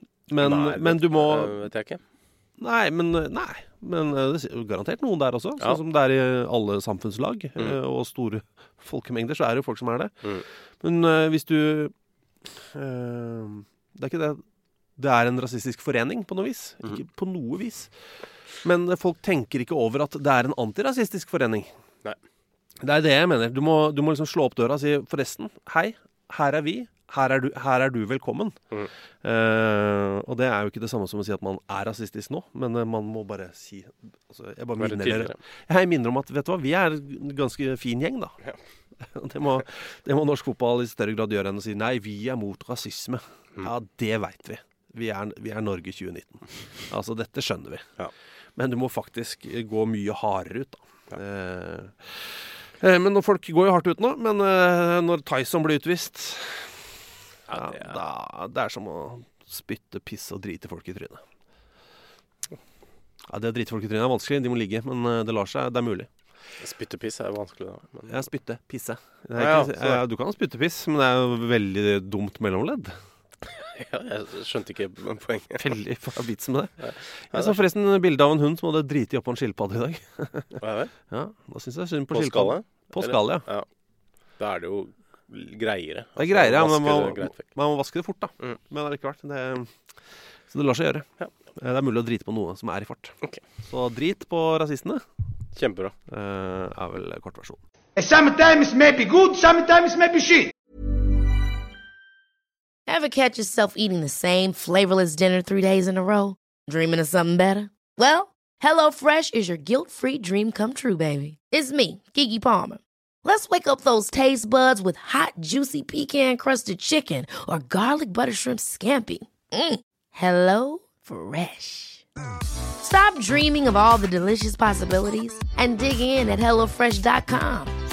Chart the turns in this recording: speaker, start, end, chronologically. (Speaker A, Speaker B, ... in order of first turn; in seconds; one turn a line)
Speaker A: 0.3-1.6
Speaker B: 0.4-2.0
Speaker A: 2.6-10.1
Speaker A: 10.8-11.9
Speaker A: 12.6-14.4
Speaker A: 15.0-17.9
Speaker A: 18.6-21.7
Speaker A: 22.8-28.6
Speaker A: 29.2-38.3
Speaker B: 34.8-35.4
Speaker A: 39.0-47.9
Speaker A: 48.6-56.9
Speaker B: 57.5-58.0
Speaker A: 57.5-61.2
Speaker A: 63.3-66.1
Speaker B: 66.6-68.3
Speaker A: 68.1-72.9
Speaker B: 69.4-70.0
Speaker B: 73.5-75.7
Speaker A: 75.6-80.6
Speaker B: 76.8-77.6
Speaker B: 80.6-80.9
Speaker A: 81.1-83.5
Speaker B: 82.1-83.7
Speaker B: 84.4-87.5
Speaker A: 86.2-89.8
Speaker A: 90.5-95.0
Speaker B: 95.6-96.0
Speaker A: 96.1-97.6
Speaker C: 98.0-100.5
Speaker D: 102.9-122.0
Speaker D: 122.8-127.7